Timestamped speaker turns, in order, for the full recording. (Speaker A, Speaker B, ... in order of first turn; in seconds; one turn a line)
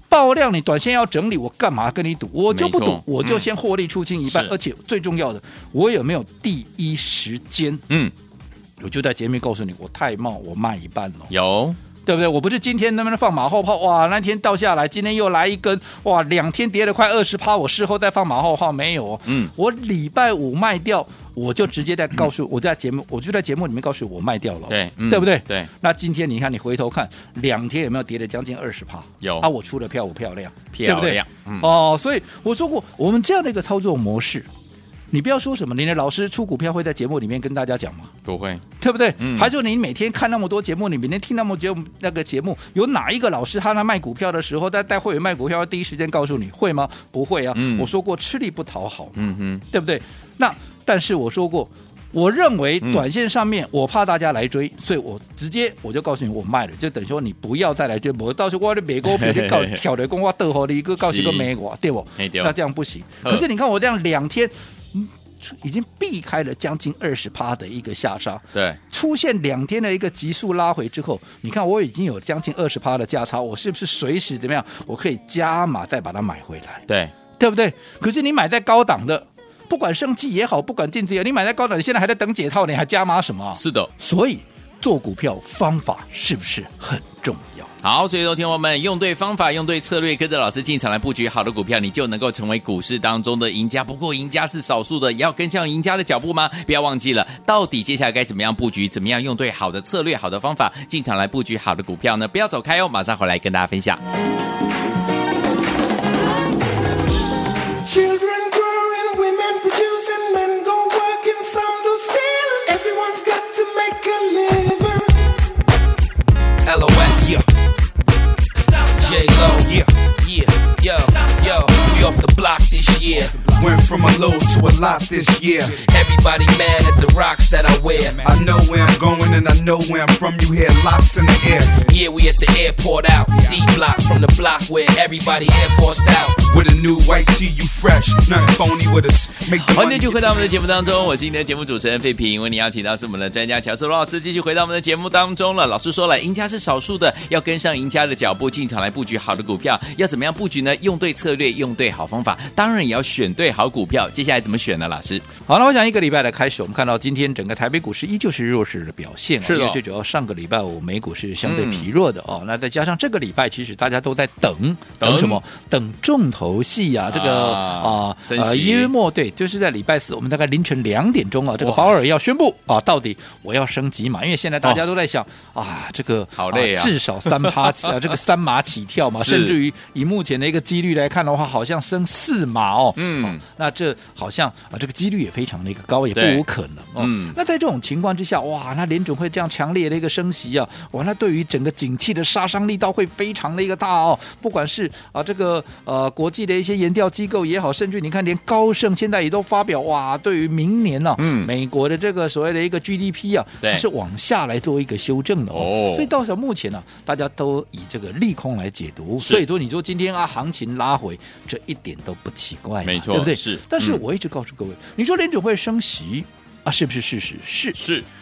Speaker A: 0.1-7.8
Speaker B: 2.5-3.5
Speaker B: 4.2-4.5
Speaker A: 8.8-11.3
Speaker B: 11.3-11.8
Speaker A: 12.1-34.5
Speaker B: 19.2-19.5
Speaker B: 24.7-25.7
Speaker B: 29.2-29.5
Speaker B: 30.7-31.7
Speaker A: 35.1-38.1
Speaker B: 38.2-38.6
Speaker A: 38.8-76.8
Speaker B: 39.2-39.5
Speaker B: 47.5-47.9
Speaker B: 49.2-49.6
Speaker B: 59.0-59.8
Speaker B: 61.0-61.5
Speaker B: 62.2-62.5
Speaker B: 68.5-68.8
Speaker B: 76.9-77.1
Speaker A: 77.4-87.7
Speaker B: 83.5-83.9
Speaker B: 87.8-104.0
Speaker C: 107.8-115.3
Speaker D: 116.6-117.4
Speaker D: 118.9-123.6
Speaker E: 119.6-119.9
Speaker E: 123.4-125.8
Speaker D: 125.8-128.3
Speaker E: 128.2-131.9
Speaker D: 131.8-136.5
Speaker E: 136.4-140.5
Speaker B: 139.5-155.2
Speaker A: 155.4-217.8
Speaker B: 159.4-159.8
Speaker B: 161.4-161.8
Speaker B: 165.0-165.4
Speaker B: 167.1-168.9
Speaker B: 171.6-171.9
Speaker B: 176.4-178.1
Speaker B: 179.2-179.6
Speaker B: 182.9-183.4
Speaker B: 186.1-186.4
Speaker B: 187.0-187.3
Speaker B: 201.2-201.5
Speaker B: 205.5-206.1
Speaker B: 209.2-209.4
Speaker B: 212.8-214.0
Speaker B: 217.7-218.1